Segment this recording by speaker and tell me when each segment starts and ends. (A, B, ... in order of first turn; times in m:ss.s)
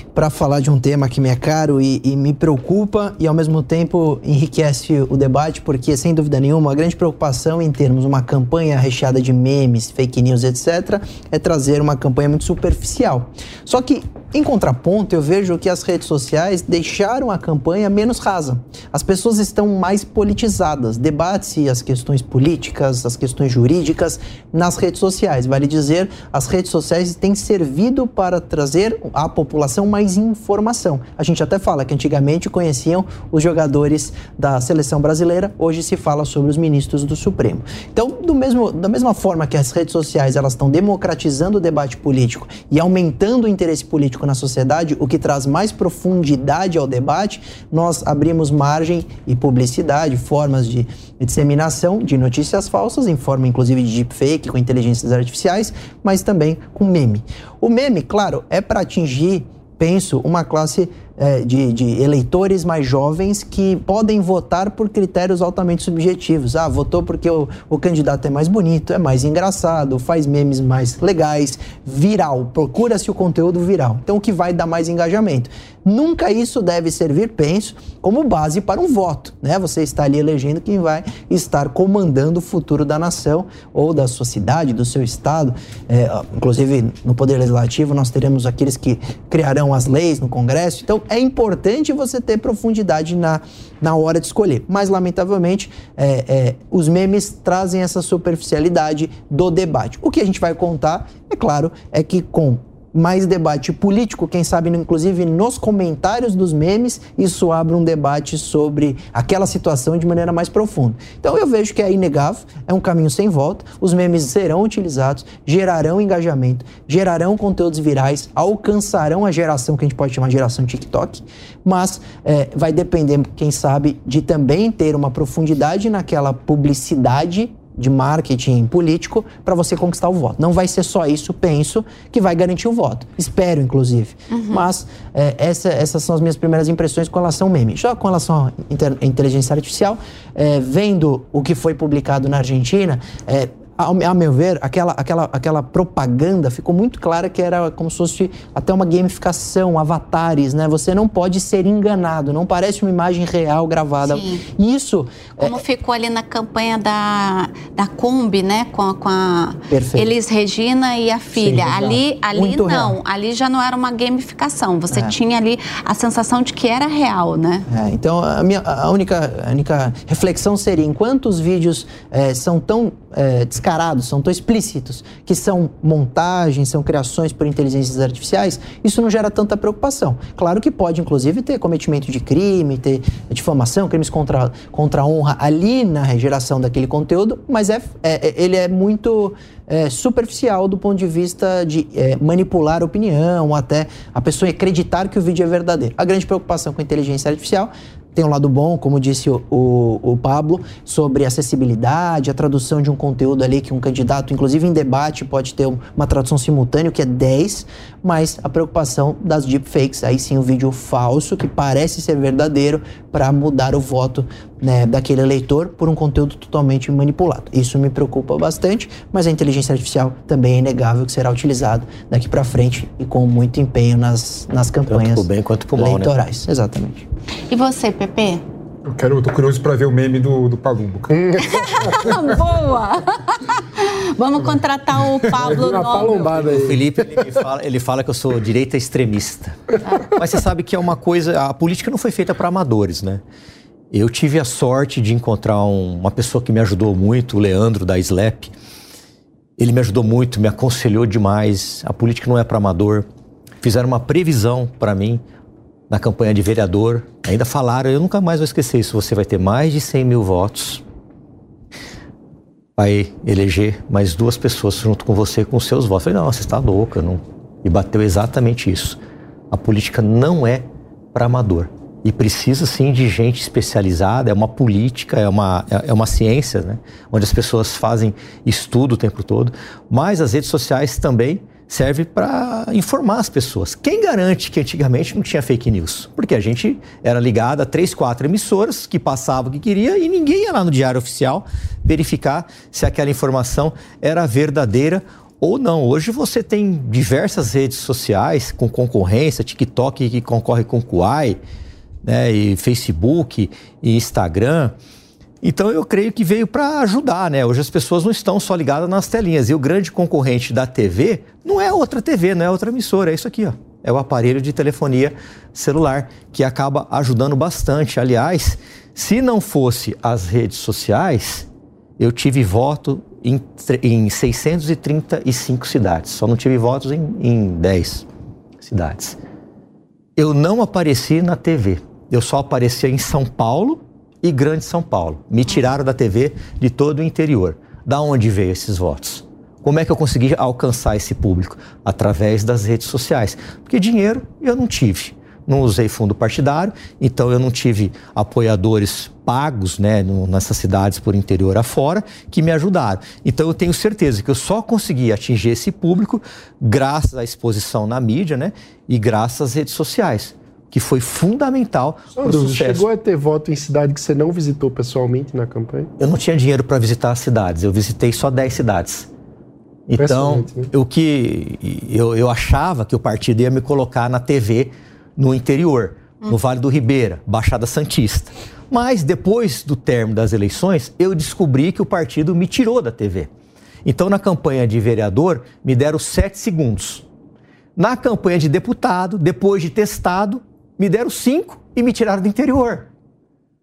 0:00.1-2:35.6 A
2:14.3-2:14.6 B
2:34.1-2:34.4 B
2:35.4-2:47.6 B
2:39.7-2:40.1 A
2:41.4-2:43.0 A
2:47.7-3:47.1 A
3:44.9-3:46.1 C
3:47.5-3:48.4 B
3:48.8-3:51.5 D
3:51.1-3:52.0 E
3:51.4-3:56.2 B
3:52.0-3:52.3 D
3:55.4-3:57.4 E
3:55.9-4:03.2 C
4:03.9-4:08.5 C
4:09.6-4:13.1 C
4:13.6-4:15.2 C
4:15.9-4:20.8 C
4:22.8-4:29.0 C
4:29.5-5:01.4 C
5:02.0-5:04.8 C
5:05.4-5:21.5 C
5:22.0-5:28.0 C
5:28.6-5:29.2 C
5:30.2-6:02.9 C
6:02.2-6:05.9 E
6:06.0-6:09.1 C
6:09.9-6:23.3 C
6:10.0-6:10.7 E
6:23.8-6:27.0 C
6:27.8-6:32.9 C